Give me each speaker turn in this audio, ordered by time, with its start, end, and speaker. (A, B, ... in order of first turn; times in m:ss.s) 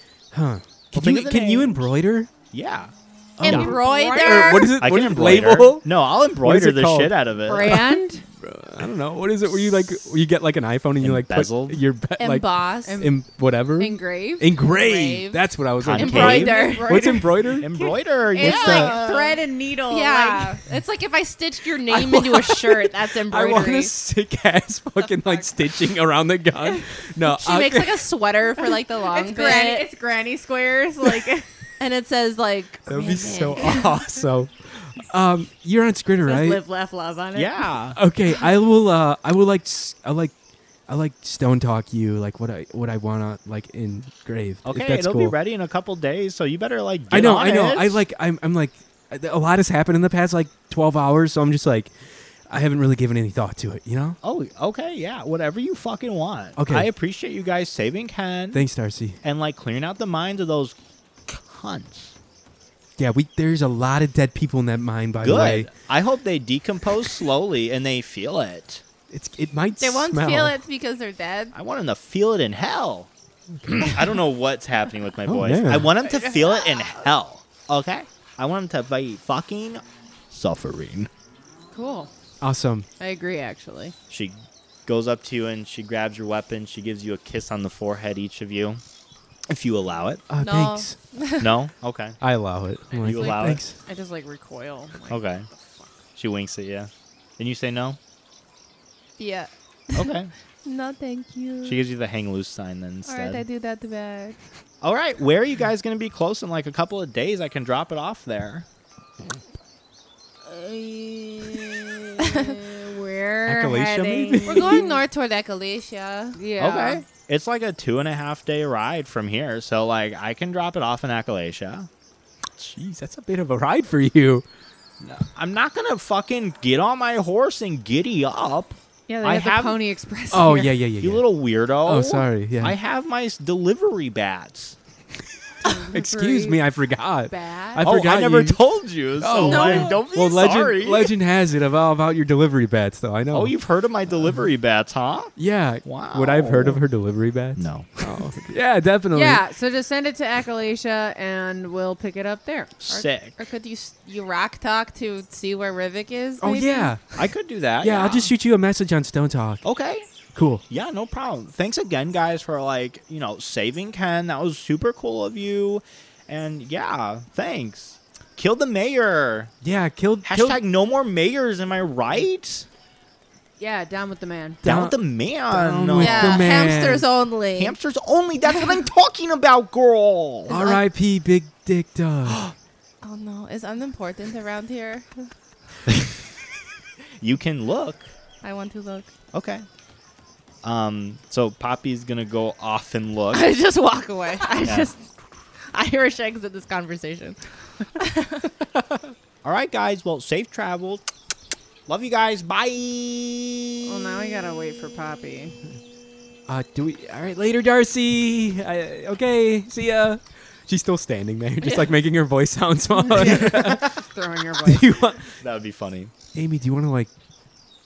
0:00.3-0:02.3 A
0:00.9-0:01.9 B
0:02.5-0:03.7 B
0:03.4-0:07.8 A
0:03.4-0:04.7 C
0:03.4-0:04.8 D
0:04.8-0:07.8 B
0:07.4-0:08.2 C
0:08.4-0:17.7 A
0:11.0-0:11.8 B
0:12.2-0:13.0 D
0:12.8-0:14.5 C
0:14.6-0:15.4 D
0:15.8-0:16.6 B
0:15.9-0:17.1 D
0:16.1-0:20.6 C
0:17.6-0:19.4 B
0:18.3-0:23.9 D
0:18.6-0:18.9 A
0:21.9-0:28.1 A
0:25.0-0:25.6 D
0:27.2-0:29.9 D
0:29.0-0:31.5 C
0:31.8-0:34.1 D
0:32.9-0:36.6 A
0:36.2-0:37.6 D
0:37.3-0:38.0 B
0:38.0-0:40.3 A
0:40.9-0:45.3 A
0:44.6-0:48.0 B
0:47.1-0:54.2 A
0:54.2-0:58.6 B
0:56.6-0:56.9 A
0:58.5-0:59.2 A
0:59.2-1:00.8 B
1:01.3-1:02.2 B
1:03.0-1:05.7 A
1:05.2-1:08.8 B
1:09.1-1:10.6 A
1:09.8-1:11.5 D
1:11.5-1:13.1 B
1:13.6-1:14.0 A
1:13.7-1:21.1 B
1:15.3-1:15.9 A
1:16.0-1:17.0 D
1:21.7-1:22.1 C
1:22.4-1:22.9 A
1:23.0-1:23.9 C
1:24.1-1:28.8 B
1:29.5-1:30.2 B
1:30.3-1:31.0 A
1:30.4-1:31.5 D
1:31.4-1:32.2 B
1:32.2-1:33.8 A
1:32.9-1:36.0 C
1:33.0-1:33.6 B
1:35.1-1:35.5 B
1:36.1-1:38.0 B
1:39.2-1:40.1 D
1:39.9-1:40.3 B
1:40.6-1:41.8 D
1:41.6-1:43.4 B
1:43.0-1:44.4 D
1:44.8-1:48.6 B
1:50.4-1:52.6 D
1:52.2-1:55.0 C
1:53.4-1:54.9 A
1:54.4-1:56.4 D
1:56.4-1:57.0 C
1:56.6-2:01.9 B
2:02.6-2:04.4 A
2:05.0-2:09.9 B
2:09.1-2:10.8 C
2:10.3-2:12.8 A
2:11.0-2:14.8 B
2:15.6-2:16.7 C
2:15.6-2:18.6 A
2:17.3-2:17.9 C
2:17.8-2:21.1 B
2:19.2-2:23.6 A
2:19.4-2:20.0 D
2:23.3-2:26.8 B
2:25.4-2:29.4 A
2:27.6-2:28.3 B
2:29.1-2:32.7 C
2:32.8-2:33.4 B
2:32.9-2:37.3 D
2:36.4-2:37.0 A
2:37.1-2:38.3 B
2:37.8-2:39.6 A
2:39.6-2:40.1 B
2:40.3-2:40.6 A
2:40.7-2:49.5 B
2:49.6-2:50.6 A
2:50.2-2:52.7 B
2:53.6-2:54.6 C
2:54.6-2:56.5 B
2:54.6-2:57.1 A
2:56.0-2:57.7 D
2:57.5-3:00.6 B
3:00.5-3:00.8 D
3:00.5-3:02.4 A
3:02.3-3:02.5 B
3:03.0-3:05.3 D
3:07.2-3:08.1 B
3:08.4-3:09.1 D
3:09.3-3:09.6 B
3:10.6-3:13.5 B
3:13.3-3:15.0 D
3:14.6-3:14.9 B
3:15.7-3:18.5 D
3:19.4-3:21.1 B
3:21.9-3:23.9 B
3:23.8-3:25.6 C
3:26.5-3:33.9 A
3:31.6-3:31.9 D
3:33.0-3:35.0 C
3:33.2-3:33.9 B
3:34.6-3:35.4 A
3:35.4-3:36.1 B
3:36.3-3:37.1 A